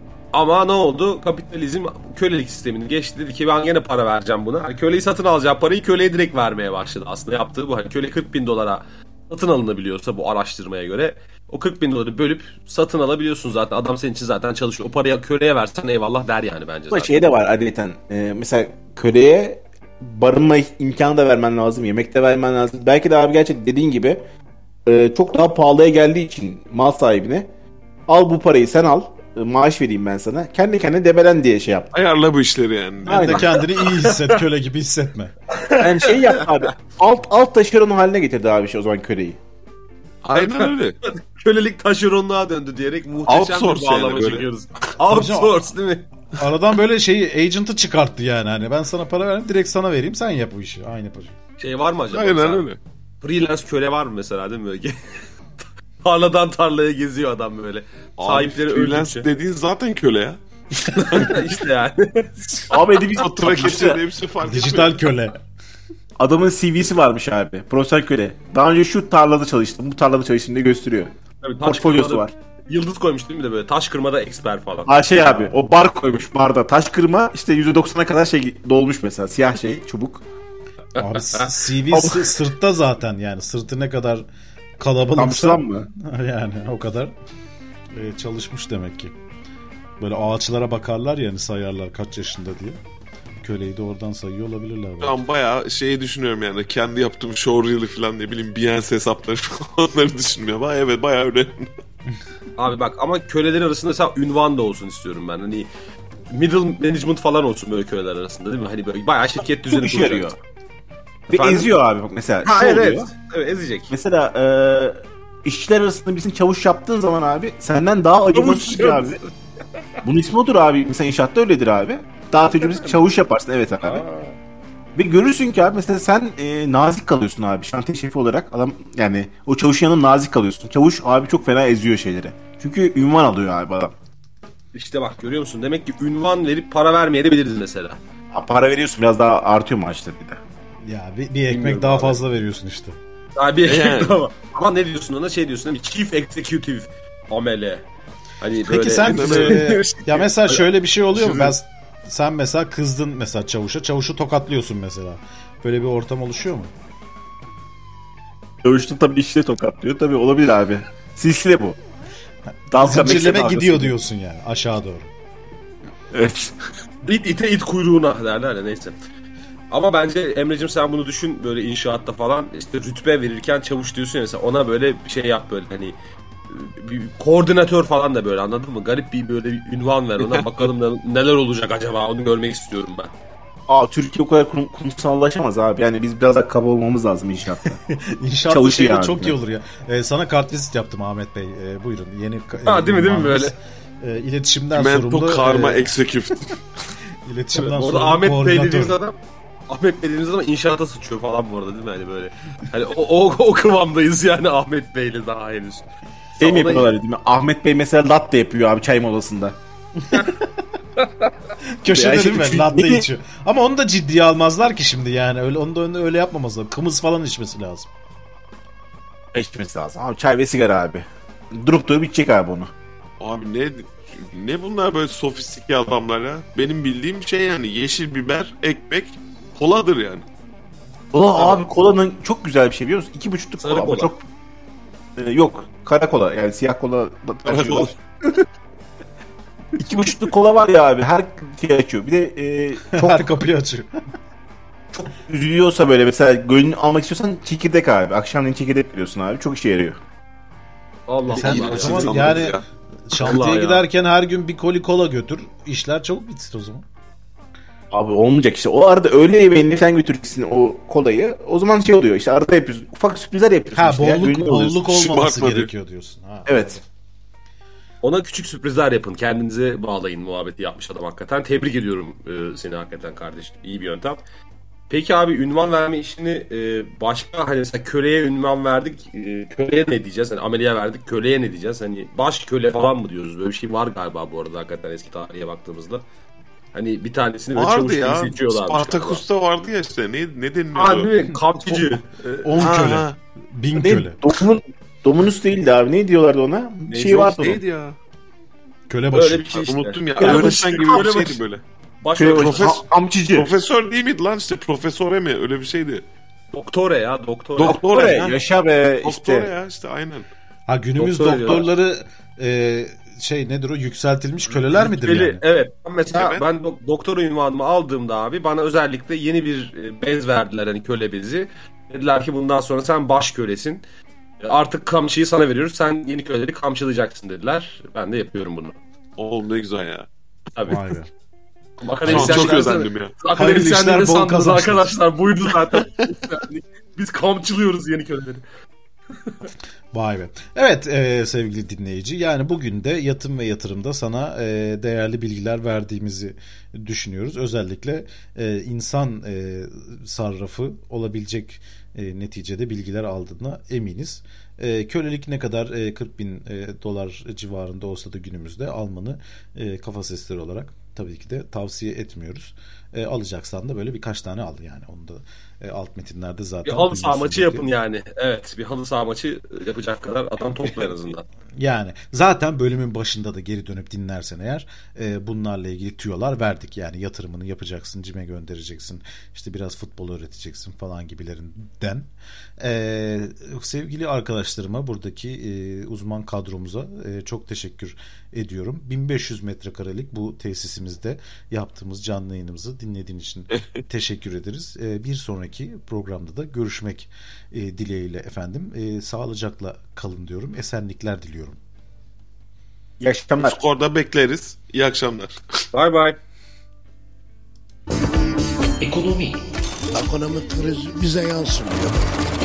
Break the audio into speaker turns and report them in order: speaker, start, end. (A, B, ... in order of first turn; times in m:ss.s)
0:00.3-0:17.3 A
0:16.9-0:24.2 B
0:24.8-0:27.5 B
0:28.1-0:31.9 B
0:31.9-0:33.5 C
0:33.0-0:33.5 B
0:33.0-0:35.3 D
0:33.9-0:34.4 A
0:35.6-0:36.6 A
0:35.8-0:39.4 B
0:40.2-0:41.0 C
0:40.3-0:46.1 A
0:43.3-0:44.4 C
0:45.1-0:45.6 D
0:46.4-0:51.4 D
0:51.6-0:52.7 A
0:52.1-0:52.8 C
0:53.2-0:55.0 A
0:56.0-0:59.3 A
0:58.2-1:01.4 C
1:00.9-1:03.0 A
1:02.7-1:04.0 B
1:03.2-1:05.0 C
1:04.4-1:05.4 D
1:06.2-1:12.3 B
1:11.4-1:15.5 A
1:14.9-1:20.2 B
1:21.0-1:24.2 D
1:21.0-1:21.5 A
1:21.9-1:22.3 B
1:24.8-1:27.1 D
1:25.2-1:25.9 B
1:27.9-1:29.1 D
1:30.0-1:32.8 D
1:33.4-1:35.2 D
1:35.0-1:41.7 C
1:42.6-1:45.7 A
1:46.3-1:50.3 A
1:49.7-1:50.4 B
1:51.3-1:53.1 B
1:51.3-1:51.7 A
1:52.4-1:53.9 A
1:53.9-1:59.2 B
1:58.3-1:59.2 A
2:00.0-2:04.0 B
2:02.6-2:03.0 A
2:03.8-2:04.3 A
2:05.0-2:13.9 B
2:14.7-2:18.0 A
2:18.3-2:20.4 B
2:20.8-2:23.0 D
2:21.5-2:22.2 A
2:23.4-2:27.8 A
2:23.6-2:24.2 C
2:28.4-2:30.0 A
2:28.6-2:36.7 D
2:29.0-2:30.1 C
2:31.1-2:31.5 C
2:38.6-2:41.8 B
2:42.7-2:43.9 B
2:42.7-2:45.1 D
2:46.1-2:46.5 B
2:47.0-2:48.9 A
2:49.7-2:56.0 A
2:56.5-3:03.1 A
3:03.7-3:07.8 B
3:07.7-3:15.9 D
3:08.5-3:09.4 B
3:12.6-3:13.5 A
3:14.7-3:16.5 C
3:17.2-3:19.0 D
3:17.6-3:19.2 A
3:19.7-3:26.9 A
3:26.4-3:29.6 B
3:30.0-3:30.3 D
3:31.0-3:31.3 A
3:31.8-3:37.9 D
3:31.9-3:33.0 B
3:39.3-3:42.7 B
3:43.2-3:50.2 C
3:51.1-3:54.2 B
3:51.4-3:51.6 A
3:53.6-3:54.1 A
3:55.2-3:58.0 B
3:57.4-3:57.9 C
3:59.8-4:03.3 B
4:02.9-4:04.0 D
4:05.2-4:10.0 B
4:11.1-4:12.1 A
4:11.3-4:16.8 D
4:11.3-4:12.6 C
4:11.4-4:12.3 B
4:13.2-4:13.8 A
4:17.9-4:24.8 B
4:23.7-4:26.8 D
4:24.8-4:25.7 C
4:26.5-4:26.8 B
4:28.0-4:34.2 A
4:34.9-4:46.0 A
4:46.7-4:49.2 A
4:47.5-4:51.1 C
4:50.7-4:52.6 A
4:52.4-4:54.2 D
4:52.6-4:53.2 C
4:53.8-4:57.6 B
4:56.9-4:57.2 A
4:57.1-4:58.0 C
4:58.9-4:59.5 D
4:59.1-5:01.4 A
4:59.5-5:01.6 C
5:00.2-5:01.1 B
5:02.0-5:02.8 A
5:02.2-5:03.5 B
5:02.2-5:02.8 C
5:03.3-5:06.0 C
5:06.5-5:07.8 A
5:07.6-5:08.4 C
5:07.6-5:09.5 B
5:09.0-5:10.3 C
5:10.7-5:15.4 D
5:11.0-5:11.7 A
5:14.7-5:23.8 A
5:16.1-5:16.4 C
5:24.4-5:28.8 A
5:29.2-5:30.1 C
5:30.6-5:30.8 A
5:30.7-5:31.1 D
5:31.8-5:38.4 A
5:32.0-5:33.2 C
5:32.1-5:32.6 D
5:33.4-5:35.0 D
5:39.9-6:07.7 D
6:06.6-6:11.2 A
6:11.6-6:22.1 D
6:22.6-6:41.6 D
6:43.0-6:43.6 B
6:43.4-6:45.4 C
6:45.7-6:46.2 A
6:48.8-6:49.4 E
6:49.9-6:52.0 E